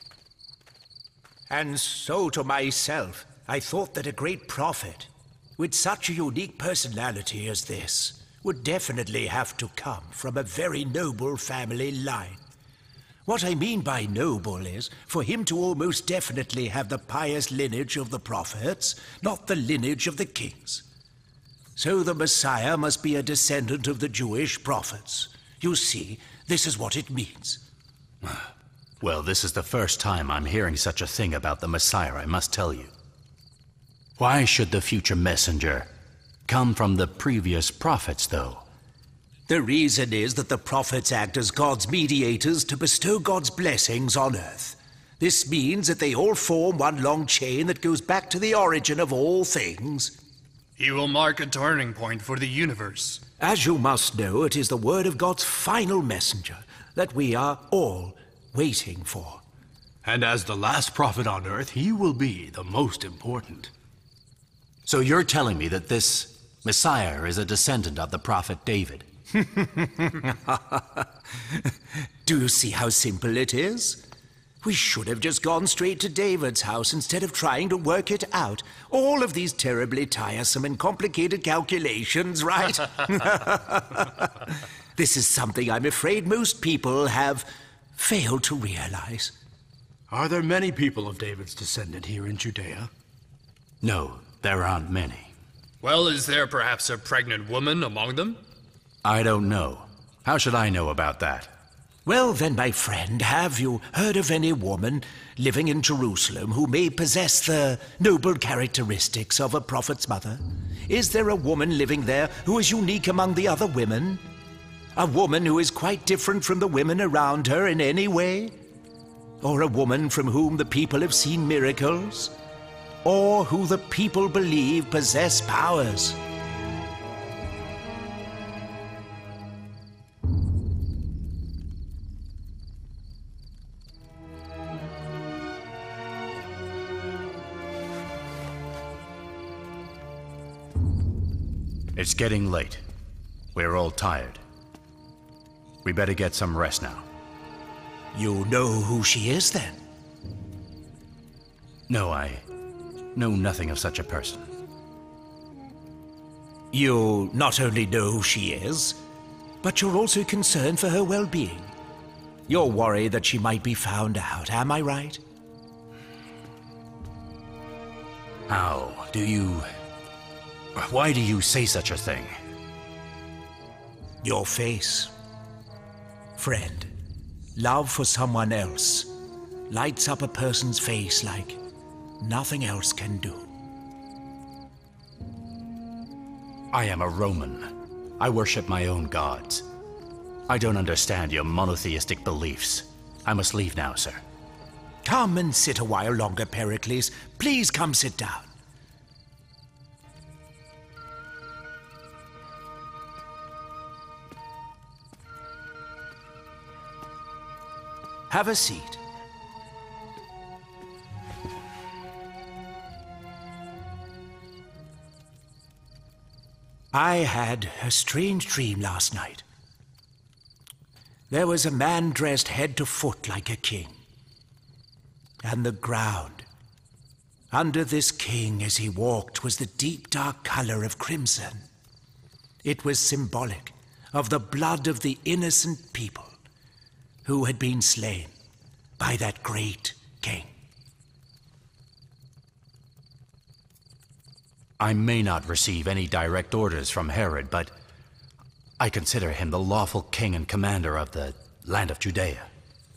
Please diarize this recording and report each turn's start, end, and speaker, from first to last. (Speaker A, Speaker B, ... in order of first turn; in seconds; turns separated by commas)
Speaker A: 1.5-12.4, Speaker A: 13.3-20.9, Speaker A: 21.8-27.6, Speaker B: 29.0-32.9, Speaker B: 34.2-35.9, Speaker B: 36.5-38.6, Speaker A: 39.5-50.1, Speaker C: 50.8-53.2, Speaker A: 53.4-59.4, Speaker D: 60.0-63.7, Speaker B: 64.9-69.1, Speaker A: 69.4-71.0, Speaker A: 72.2-74.0, Speaker A: 74.6-84.3, Speaker A: 85.0-89.3, Speaker D: 90.1-92.9, Speaker B: 93.8-95.3, Speaker C: 95.8-98.4, Speaker B: 99.0-101.5, Speaker A: 102.1-114.2, Speaker A: 115.0-118.5, Speaker A: 119.4-122.3, Speaker A: 123.0-126.2, Speaker B: 141.9-142.8, Speaker B: 143.5-144.4, Speaker B: 145.8-147.1, Speaker A: 148.1-149.8, Speaker B: 151.9-152.5, Speaker B: 153.2-154.5, Speaker A: 156.7-159.0, Speaker A: 159.6-161.7, Speaker A: 162.5-165.2, Speaker B: 168.5-169.7, Speaker B: 170.8-172.4, Speaker A: 174.2-175.1, Speaker A: 176.4-176.9, Speaker A: 177.6-179.1, Speaker A: 179.7-181.6, Speaker A: 182.2-183.5, Speaker B: 186.7-189.7, Speaker B: 190.5-194.2, Speaker A: 195.1-198.5, Speaker A: 208.3-209.0, Speaker A: 216.9-219.4, Speaker A: 221.3-223.9, Speaker A: 225.4-226.5, Speaker A: 227.5-231.6, Speaker A: 232.6-236.3, Speaker A: 237.2-238.3, Speaker A: 239.0-240.5, Speaker B: 244.8-247.7, Speaker B: 248.8-252.5